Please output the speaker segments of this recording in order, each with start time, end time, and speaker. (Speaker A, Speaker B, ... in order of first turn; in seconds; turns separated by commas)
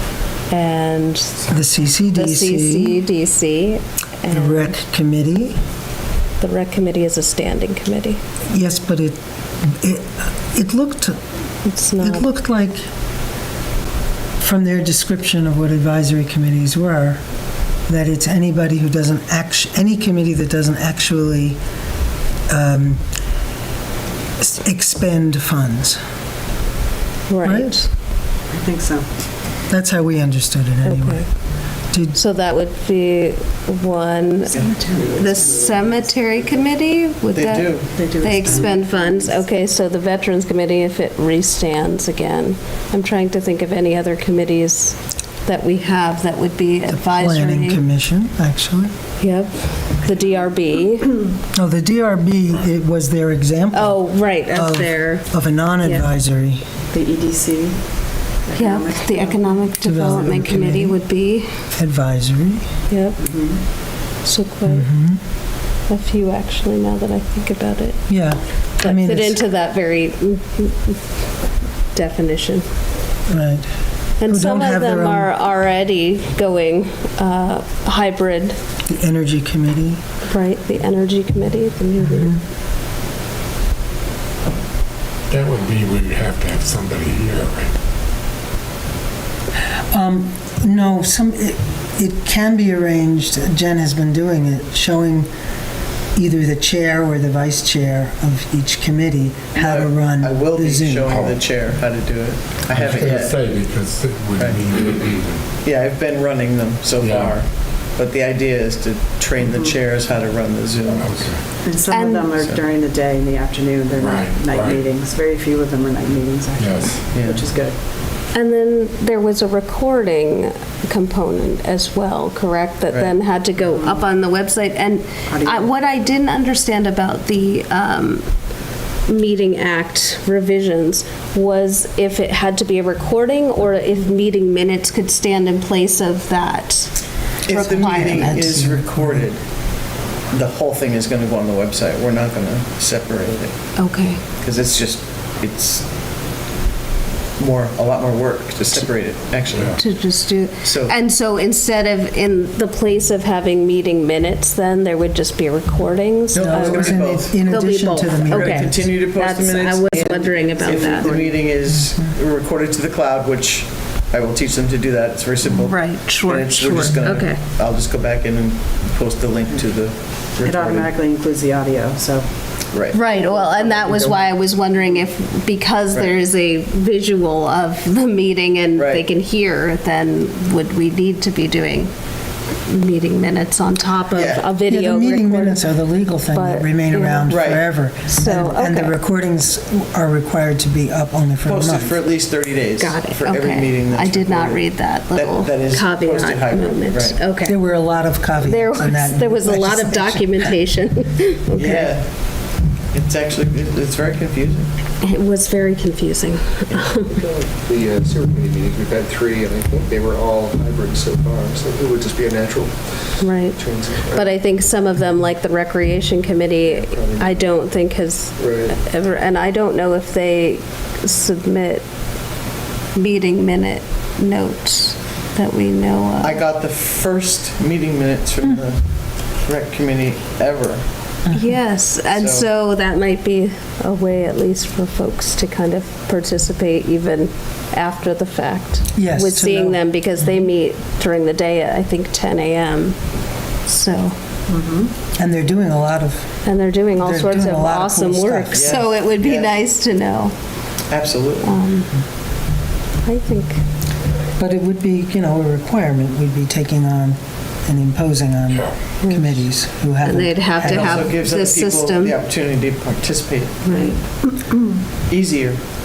Speaker A: 0.5-1.4, Speaker B: 1.5-3.0, Speaker A: 2.1-4.8, Speaker B: 4.3-5.6, Speaker A: 6.4-8.2, Speaker B: 8.5-11.2, Speaker A: 11.7-12.3, Speaker B: 12.0-12.8, Speaker B: 14.4-17.2, Speaker B: 17.9-21.6, Speaker B: 22.5-23.0, Speaker B: 24.4-26.0, Speaker A: 27.3-27.9, Speaker B: 27.4-27.8, Speaker C: 28.5-29.1, Speaker B: 29.7-31.3, Speaker A: 30.9-31.3, Speaker B: 31.9-32.2, Speaker A: 32.1-47.8, Speaker C: 34.5-35.8, Speaker D: 37.3-38.0, Speaker C: 37.9-39.4, Speaker B: 46.9-48.9, Speaker A: 49.2-51.2, Speaker B: 51.5-56.6, Speaker A: 53.7-55.3, Speaker C: 56.9-59.6, Speaker A: 58.6-61.5, Speaker B: 59.8-61.1, Speaker B: 61.7-62.6, Speaker A: 62.9-63.2, Speaker C: 63.2-63.6, Speaker A: 63.7-64.9, Speaker B: 64.7-65.2, Speaker A: 65.9-68.2, Speaker B: 68.1-69.4, Speaker A: 68.8-71.0, Speaker A: 71.9-72.7, Speaker B: 73.3-73.7, Speaker A: 74.2-78.6, Speaker B: 74.3-75.3, Speaker B: 78.9-80.0, Speaker A: 80.3-82.3, Speaker B: 82.0-82.4, Speaker E: 85.3-87.7, Speaker B: 89.9-95.3, Speaker B: 96.2-101.2, Speaker D: 99.5-103.4, Speaker E: 101.1-101.4, Speaker E: 102.7-105.5, Speaker D: 104.4-104.7, Speaker D: 105.6-111.3, Speaker E: 107.0-107.4, Speaker C: 109.4-109.8, Speaker E: 110.8-111.5, Speaker C: 111.6-117.8, Speaker A: 111.9-112.3, Speaker E: 114.0-114.8, Speaker E: 116.6-117.1, Speaker D: 117.1-117.5, Speaker A: 118.3-128.3, Speaker C: 123.7-124.1, Speaker C: 125.3-125.7, Speaker A: 129.1-138.6, Speaker D: 137.4-139.4, Speaker B: 137.5-139.3, Speaker D: 140.3-143.7, Speaker A: 143.8-144.2, Speaker D: 144.4-145.9, Speaker D: 147.4-149.8, Speaker A: 149.8-161.2, Speaker D: 150.6-150.9, Speaker D: 156.3-157.4, Speaker B: 156.4-158.8, Speaker D: 158.2-170.9, Speaker C: 160.0-161.4, Speaker B: 161.7-162.1, Speaker A: 165.6-167.4, Speaker C: 170.3-175.1, Speaker D: 172.7-173.0, Speaker A: 172.9-181.9, Speaker D: 178.8-179.0, Speaker A: 182.7-185.7, Speaker D: 184.1-184.4, Speaker B: 184.7-192.0, Speaker A: 186.3-187.4, Speaker D: 187.3-187.6, Speaker A: 188.1-188.9, Speaker D: 191.5-197.2, Speaker A: 192.8-197.6, Speaker B: 197.4-200.5, Speaker A: 198.4-201.9, Speaker D: 201.6-204.7, Speaker A: 205.0-207.2, Speaker F: 206.7-214.4, Speaker A: 213.2-221.8, Speaker F: 216.7-217.6, Speaker F: 218.4-218.8, Speaker A: 222.9-226.4, Speaker D: 226.2-231.2, Speaker A: 231.3-244.2, Speaker D: 232.1-232.5, Speaker B: 238.9-239.8, Speaker C: 244.5-244.9, Speaker B: 245.2-248.8, Speaker A: 246.4-250.3, Speaker D: 248.5-249.6, Speaker D: 250.9-251.6, Speaker A: 251.4-251.9, Speaker A: 253.0-253.6, Speaker B: 254.4-261.1, Speaker E: 258.5-258.7, Speaker A: 259.0-259.5, Speaker A: 260.0-262.2, Speaker D: 260.6-263.9, Speaker A: 263.6-264.0, Speaker C: 263.8-264.7, Speaker D: 265.1-265.6